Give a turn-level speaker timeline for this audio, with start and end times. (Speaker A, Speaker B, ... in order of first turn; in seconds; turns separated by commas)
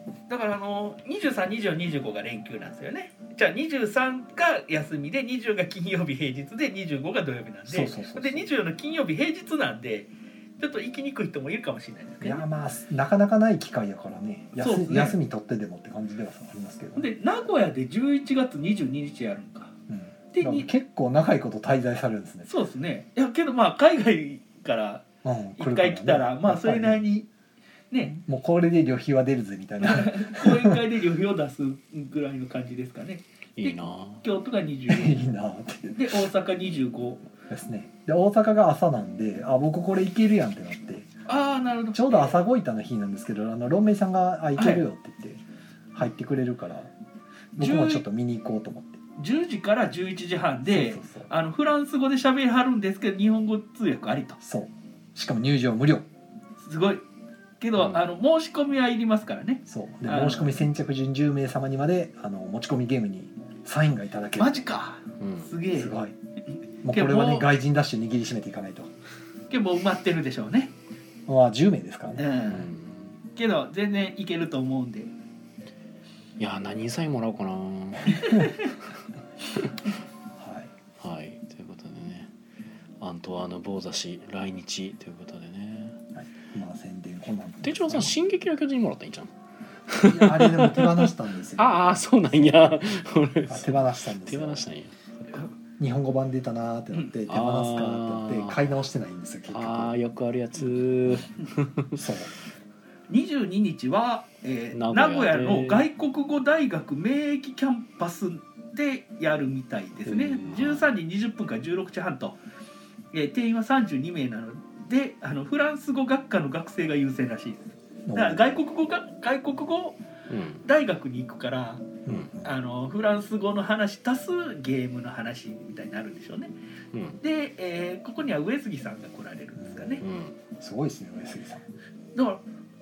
Speaker A: 0.3-12.4, Speaker B: 7.7-8.5, Speaker B: 12.2-17.1, Speaker A: 14.5-15.2, Speaker A: 16.9-19.7, Speaker B: 19.9-22.5, Speaker A: 20.3-20.7, Speaker A: 22.5-25.0, Speaker B: 25.2-27.0, Speaker A: 25.6-27.3, Speaker A: 27.9-28.2, Speaker B: 28.0-30.8, Speaker A: 29.8-35.2, Speaker C: 33.6-34.2, Speaker B: 34.9-36.1, Speaker A: 35.9-37.2, Speaker B: 37.5-41.1, Speaker A: 41.3-42.4, Speaker B: 41.9-45.4, Speaker A: 44.6-44.8, Speaker B: 45.9-46.9, Speaker B: 47.5-49.0, Speaker A: 47.6-48.0, Speaker A: 49.2-54.4, Speaker B: 50.7-51.3, Speaker B: 54.4-56.0, Speaker A: 56.6-57.0, Speaker A: 57.6-60.6, Speaker C: 57.8-58.0, Speaker B: 59.7-64.6, Speaker A: 64.4-65.9, Speaker C: 65.2-65.5, Speaker B: 65.7-66.1, Speaker B: 66.8-68.9, Speaker A: 66.8-67.5, Speaker A: 69.5-70.7, Speaker B: 71.3-72.3, Speaker A: 72.2-72.7, Speaker C: 72.5-73.1, Speaker A: 73.3-75.1, Speaker C: 76.4-78.7, Speaker B: 80.4-80.7, Speaker C: 81.0-82.3, Speaker C: 83.0-86.0, Speaker B: 86.1-88.1, Speaker C: 87.6-89.3, Speaker C: 89.9-95.5, Speaker B: 90.0-92.7, Speaker B: 93.5-94.7, Speaker B: 95.8-99.9, Speaker C: 97.3-98.8, Speaker C: 99.5-102.0, Speaker B: 101.9-102.3, Speaker A: 103.1-112.4, Speaker C: 104.7-105.8, Speaker C: 110.1-110.9, Speaker A: 113.1-120.0, Speaker B: 118.0-118.6, Speaker C: 120.3-120.6, Speaker A: 120.6-126.5, Speaker B: 122.0-122.5, Speaker C: 126.9-127.2, Speaker A: 127.2-130.0, Speaker B: 129.6-130.0, Speaker C: 130.0-130.3, Speaker B: 130.6-131.6, Speaker A: 132.1-132.4